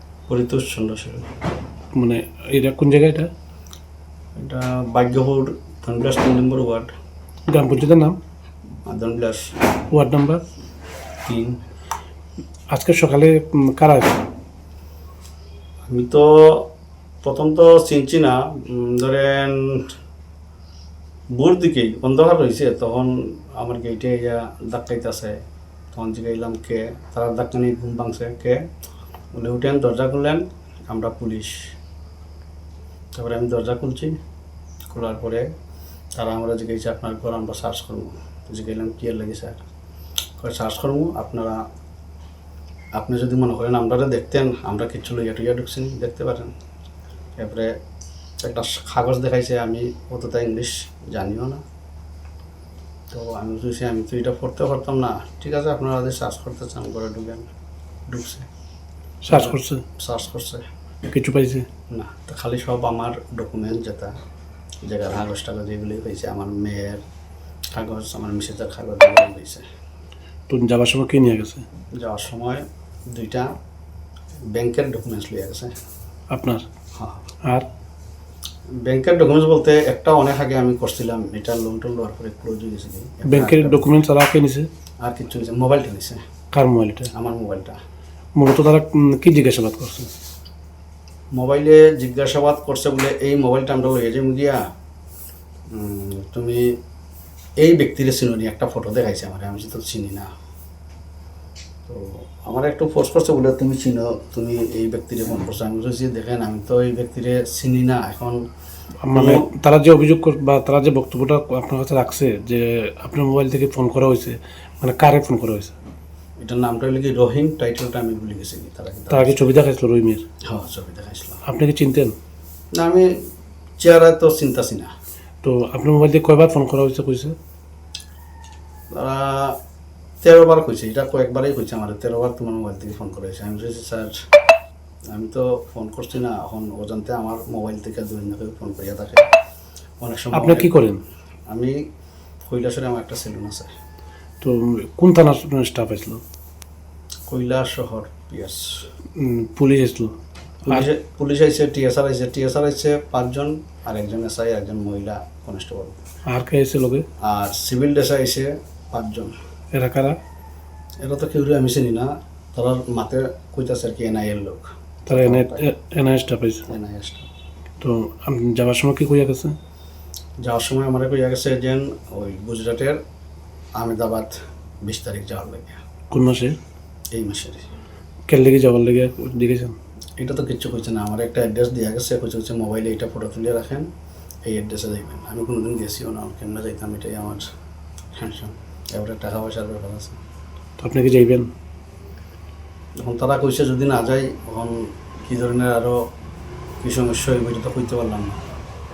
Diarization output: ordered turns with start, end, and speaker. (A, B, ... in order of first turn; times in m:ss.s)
0:00.3-0:01.2 A
0:02.0-0:03.3 B
0:04.4-0:06.9 A
0:07.5-0:08.2 B
0:08.9-0:09.6 A
0:09.9-0:10.4 B
0:11.2-0:11.6 A
0:12.7-0:14.2 B
0:15.9-0:16.7 A
0:17.2-0:19.9 A
0:21.4-0:25.4 A
0:25.9-0:28.6 A
0:29.3-0:31.6 A
0:33.1-0:34.2 A
0:34.9-0:35.5 A
0:36.2-0:39.6 A
0:40.4-0:41.6 A
0:43.0-0:46.5 A
0:47.4-0:47.7 A
0:48.4-0:51.6 A
0:53.1-0:57.5 A
0:58.1-0:58.5 A
0:59.2-0:59.8 B
0:59.3-1:00.6 A
1:01.1-1:01.7 B
1:01.9-1:04.1 A
1:04.8-1:07.0 A
1:07.7-1:09.6 A
1:10.5-1:11.6 B
1:12.0-1:13.5 A
1:14.5-1:15.7 A
1:16.3-1:16.6 B
1:17.0-1:17.3 A
1:18.8-1:23.9 A
1:23.3-1:24.7 B
1:25.0-1:26.2 A
1:26.5-1:27.1 B
1:27.1-1:27.8 A
1:28.4-1:30.1 B
1:31.3-1:34.6 A
1:35.7-1:36.8 A
1:37.6-1:40.3 A
1:41.9-1:48.4 A
1:49.0-1:55.8 B
1:49.1-1:49.5 A
1:56.4-1:59.6 A
1:59.1-2:00.2 B
2:00.5-2:01.4 A
2:01.4-2:02.2 B
2:02.8-2:03.1 A
2:03.8-2:04.9 A
2:05.4-2:07.4 B
2:08.9-2:09.6 A
2:10.2-2:14.2 A
2:15.1-2:19.3 A
2:20.0-2:20.7 A
2:20.3-2:21.0 B
2:21.5-2:21.8 A
2:22.5-2:23.7 A
2:24.4-2:26.2 B
2:27.3-2:28.8 A
2:29.2-2:30.1 B
2:30.7-2:36.0 A
2:36.3-2:37.1 B
2:37.2-2:39.3 A
2:39.7-2:40.2 B
2:41.0-2:45.6 A
2:45.1-2:46.6 B
2:46.7-2:47.3 A
2:47.8-2:49.6 B
2:50.4-2:53.0 A
2:53.8-2:55.8 A
2:56.1-2:56.6 B
2:57.1-2:57.7 A
2:58.3-2:59.8 B
3:00.2-3:03.9 A
3:04.5-3:07.5 A
3:08.2-3:10.2 A
3:10.8-3:11.5 B
3:13.0-3:16.0 A
3:16.8-3:18.4 A